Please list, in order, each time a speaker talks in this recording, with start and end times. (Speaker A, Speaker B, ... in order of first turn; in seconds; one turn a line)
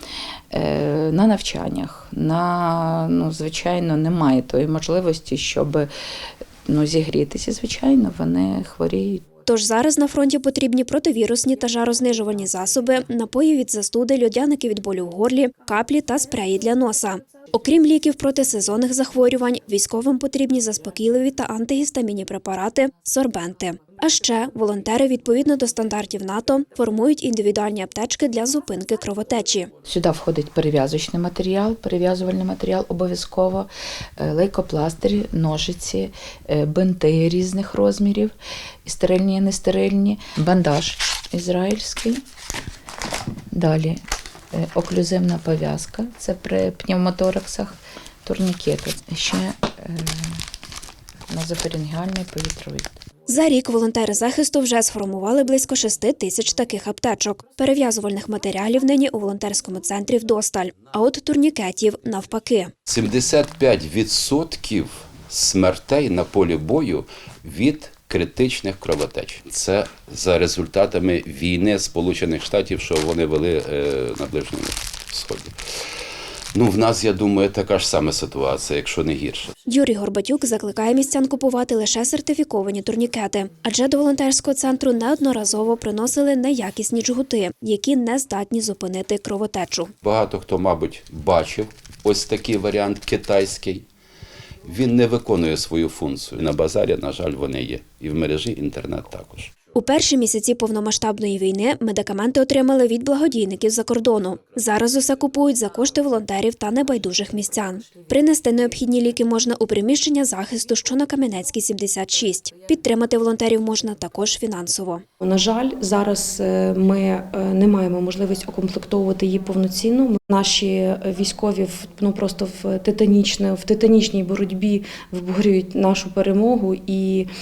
Speaker A: 0.5-5.9
Speaker A: 6.7-9.2
Speaker B: 9.4-29.7
Speaker A: 29.9-42.2
Speaker A: 43.5-44.0
Speaker A: 44.5-50.4
Speaker A: 51.3-53.0
Speaker B: 53.3-62.7
Speaker C: 62.9-75.5
Speaker C: 76.5-79.5
Speaker B: 79.7-89.9
Speaker C: 90.0-93.8
Speaker C: 94.6-99.5
Speaker B: 99.7-115.0
Speaker D: 115.2-127.3